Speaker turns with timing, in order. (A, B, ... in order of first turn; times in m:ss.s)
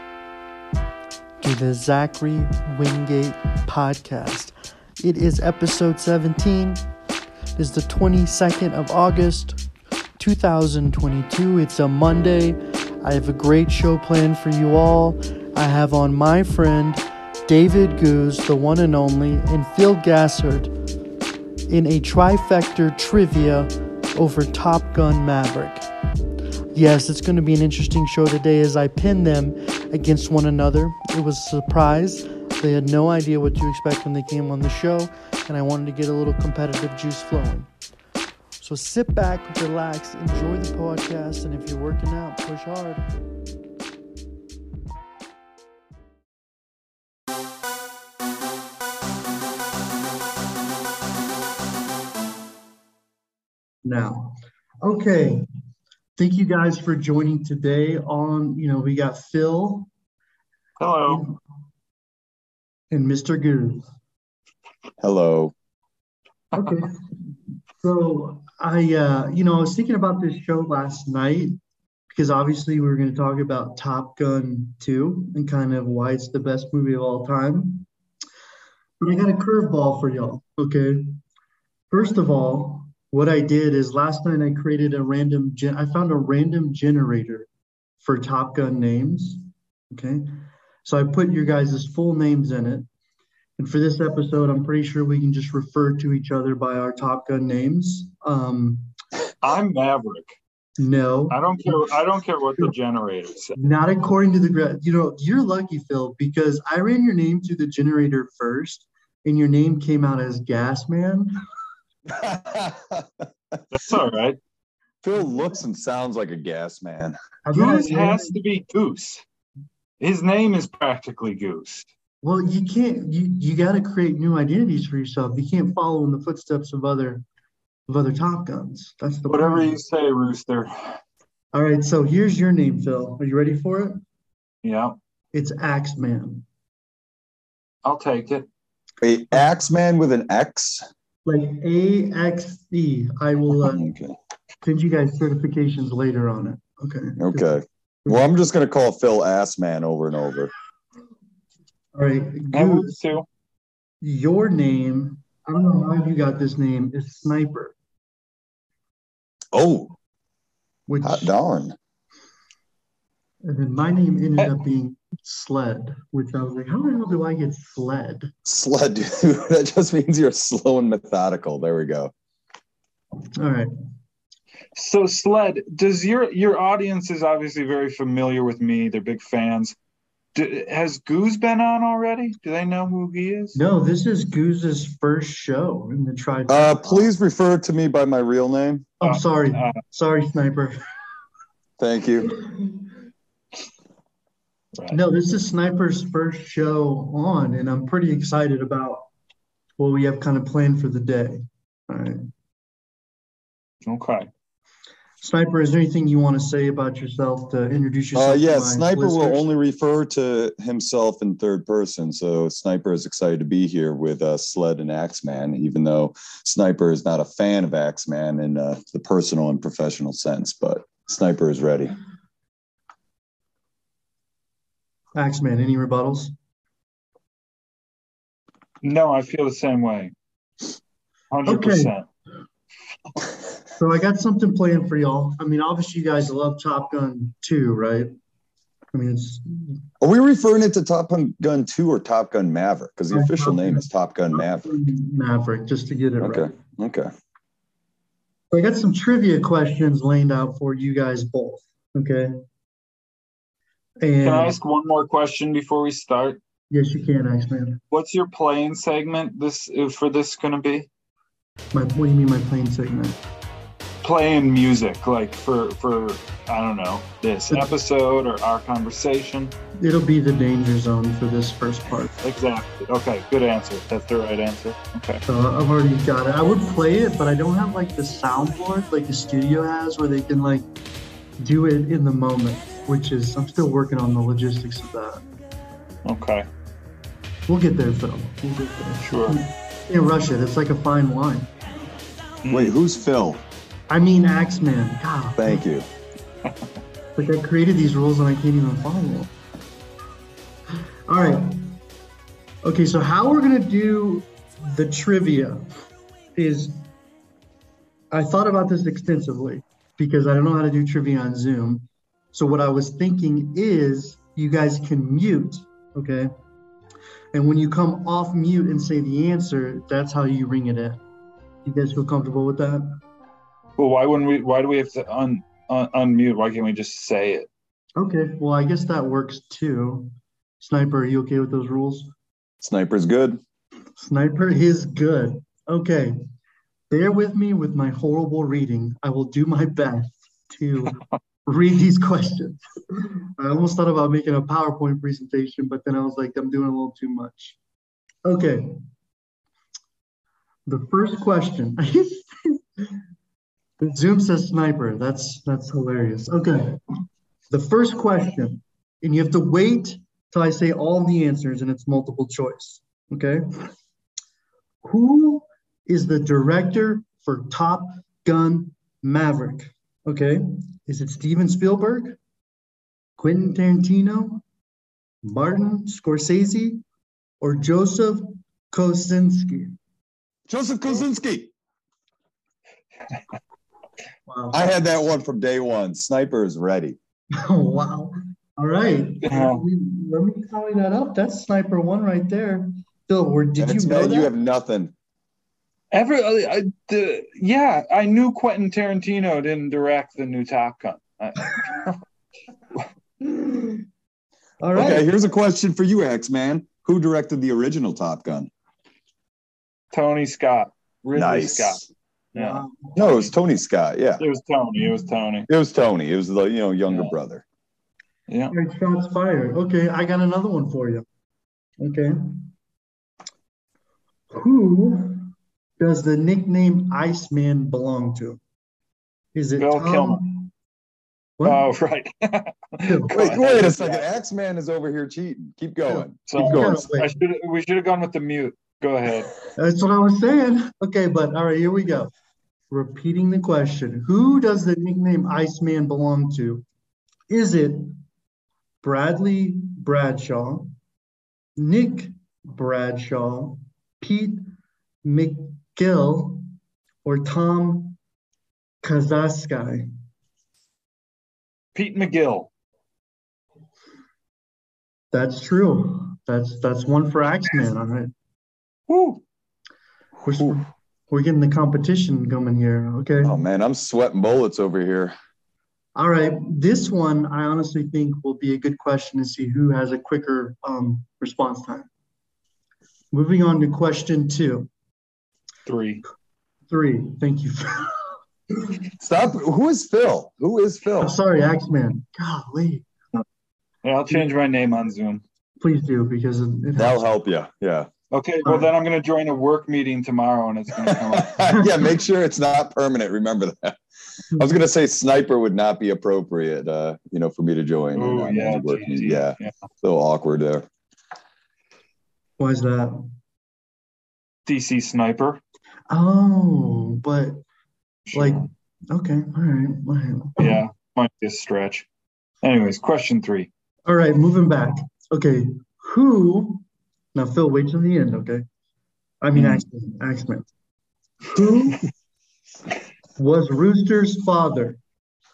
0:01.4-0:06.8 A
0:07.6-0:09.6 A
0:10.2-0:20.7 A
0:21.7-0:25.9 A
0:26.7-0:37.7 A
0:38.6-0:43.0 A
0:53.8-0:55.5 A
0:56.2-0:59.9 A
1:00.8-1:01.3 B
1:01.1-1:01.4 A
1:02.9-1:03.8 A
1:05.0-1:05.5 C
1:06.5-1:07.0 A
1:07.8-1:11.6 A
1:12.1-1:17.9 A
1:19.0-1:21.2 A
1:21.9-1:27.5 A
1:28.0-1:32.9 A
1:33.6-1:38.9 A
1:39.4-1:40.4 B
1:40.8-1:41.8 A
1:41.3-1:43.6 B
1:43.6-1:51.3 A
1:52.1-1:53.6 C
1:53.7-1:54.4 B
1:55.0-1:57.2 C
1:57.4-1:58.4 A
1:57.5-1:59.2 B
2:00.0-2:01.9 B
2:02.2-2:07.2 A
2:07.9-2:09.8 A
2:09.3-2:11.0 B
2:11.5-2:14.0 A
2:14.6-2:15.0 B
2:15.3-2:16.5 A
2:17.8-2:18.5 B
2:19.0-2:20.8 C
2:21.3-2:23.9 A
2:23.5-2:24.2 C
2:24.6-2:28.4 A
2:27.2-2:30.5 C
2:31.9-2:33.0 A
2:32.5-2:33.3 B
2:34.0-2:37.8 A
2:39.5-2:39.9 C
2:40.9-2:41.3 A
2:41.0-2:41.8 C
2:43.4-2:48.3 A
2:48.4-2:52.1 C
2:53.4-2:53.7 A
2:54.8-2:59.8 B
3:00.4-3:03.6 B
3:03.5-3:07.1 A
3:06.5-3:08.9 C
3:09.0-3:10.8 A
3:09.0-3:09.8 B
3:11.8-3:12.3 C
3:14.9-3:19.1 A
3:19.8-3:22.3 A
3:23.8-3:24.3 B
3:25.2-3:29.4 A
3:28.2-3:41.9 C
3:45.2-3:46.3 A
3:48.8-3:50.1 B
3:51.3-3:52.0 B
3:51.5-3:51.9 A
3:53.8-3:58.1 A
3:58.9-3:59.8 A
4:00.0-4:04.7 C
4:03.1-4:06.5 A
4:06.2-4:07.1 C
4:08.5-4:12.4 A
4:14.0-4:14.6 A
4:14.2-4:16.4 B
4:16.7-4:17.8 A
4:17.9-4:20.9 B
4:21.7-4:23.2 A
4:24.0-4:29.5 B
4:29.8-4:32.1 A
4:32.2-4:35.2 B
4:35.3-4:40.6 A
4:41.4-4:45.2 A
4:46.0-4:46.5 B
4:47.5-4:51.5 A
4:49.0-4:49.4 B
4:52.4-4:52.8 B
4:52.5-4:53.4 C
4:53.9-4:55.7 A
4:55.4-4:55.8 C
4:57.2-4:59.3 A
5:01.1-5:01.7 A
5:02.6-5:05.7 A
5:06.4-5:06.9 A
5:08.1-5:16.3 A
5:17.3-5:21.0 A
5:21.6-5:23.0 A
5:23.8-5:27.5 B
5:28.0-5:32.1 A
5:32.6-5:33.4 C
5:34.0-5:36.2 A
5:36.9-5:47.6 A
5:48.2-5:48.8 A
5:50.7-5:53.0 A
5:53.8-5:56.8 A
5:57.5-6:03.7 A
6:04.8-6:12.2 A
6:13.2-6:14.4 A
6:15.2-6:16.8 A
6:17.4-6:19.8 A
6:20.5-6:21.5 C
6:24.3-6:24.7 A
6:24.5-6:27.0 C
6:27.4-6:34.3 A
6:29.2-6:29.6 B
6:33.6-6:34.9 C
6:35.9-6:42.0 B
6:43.2-6:43.8 A
6:44.6-6:45.1 A
6:44.7-6:48.5 C
6:49.9-6:53.3 B
6:51.2-6:51.9 C
6:52.4-6:53.0 A
6:53.0-6:54.2 C
6:54.2-6:55.5 B
6:55.5-6:57.4 C
6:56.9-6:57.1 B
6:58.3-6:58.5 B
6:58.5-7:01.0 A
7:01.8-7:02.5 A
7:04.3-7:08.4 A
7:09.3-7:10.5 A
7:09.6-7:10.2 B
7:11.4-7:11.7 A
7:11.4-7:14.2 B
7:12.8-7:13.2 A
7:13.1-7:16.8 C
7:15.9-7:17.2 A
7:16.3-7:19.3 B
7:19.6-7:22.1 A
7:22.7-7:26.6 A
7:27.3-7:28.0 A
7:28.8-7:30.7 A
7:31.6-7:34.4 A
7:35.0-7:36.4 A
7:37.0-7:38.0 A
7:38.8-7:39.9 A
7:41.7-7:42.5 B
7:45.1-7:48.1 A
7:48.9-7:49.2 B
7:50.2-7:53.4 A
7:53.2-7:55.1 C
7:56.0-8:01.9 A
8:03.1-8:04.7 A
8:05.7-8:06.0 B
8:06.7-8:08.2 A
8:09.0-8:11.2 C
8:11.0-8:12.9 A
8:13.8-8:15.2 B
8:15.6-8:17.0 A
8:16.8-8:17.9 C
8:18.1-8:21.5 B
8:20.8-8:23.8 C
8:24.4-8:30.7 C
8:28.0-8:29.5 B
8:32.4-8:33.1 A
8:34.5-8:35.4 B
8:35.9-8:37.4 A
8:38.1-8:38.5 B
8:38.1-8:40.6 A
8:40.4-8:41.9 B
8:42.4-8:43.5 B
8:43.9-8:46.6 A
8:47.2-8:48.4 A
8:49.2-8:50.5 A
8:49.4-8:49.6 B
8:51.2-8:51.8 A
8:53.2-8:54.8 A